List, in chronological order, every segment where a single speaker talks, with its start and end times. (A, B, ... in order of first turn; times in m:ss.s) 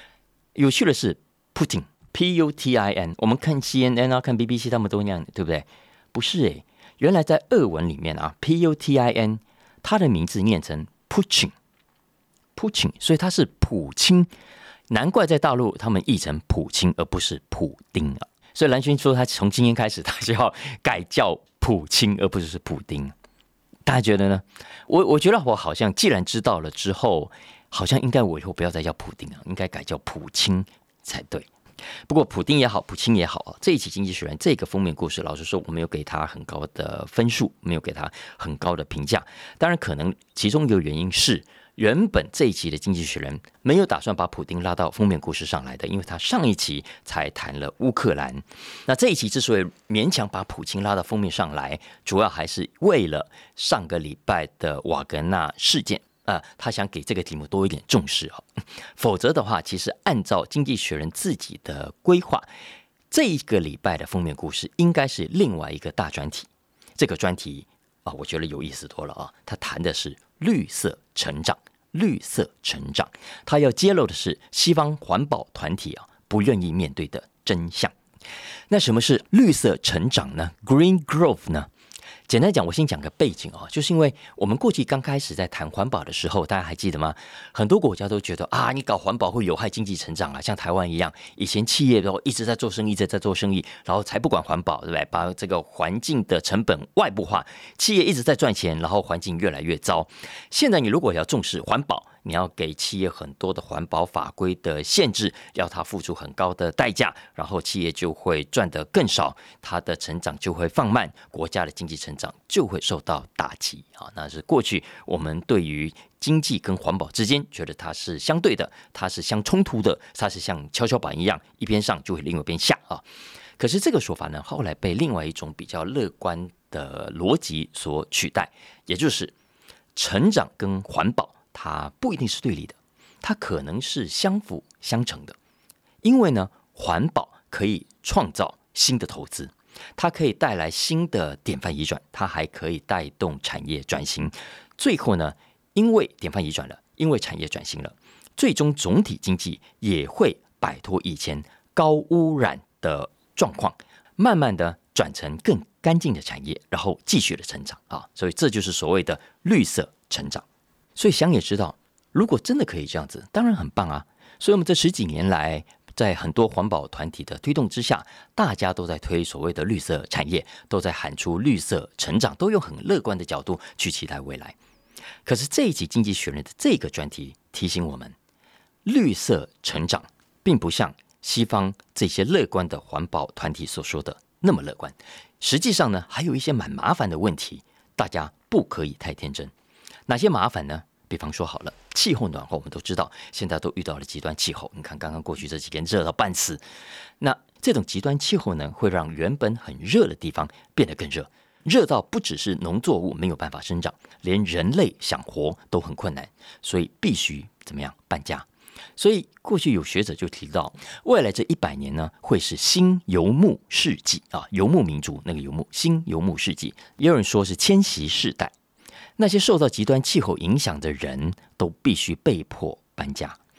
0:00.5-0:11.5 A
0:12.6-0:14.3 A
0:14.9-0:23.1 A
0:23.8-0:31.5 A
0:32.1-1:02.4 A
1:03.1-1:17.9 A
1:18.7-1:21.7 A
1:22.3-2:03.0 A
2:03.6-2:09.3 A
2:09.9-2:15.4 A
2:16.0-2:40.4 A
2:41.0-2:54.6 A
2:55.2-2:58.2 A
2:58.8-3:09.5 A
3:10.1-3:16.6 A
3:17.2-3:28.4 A
3:29.0-3:38.5 A
3:39.2-3:43.4 A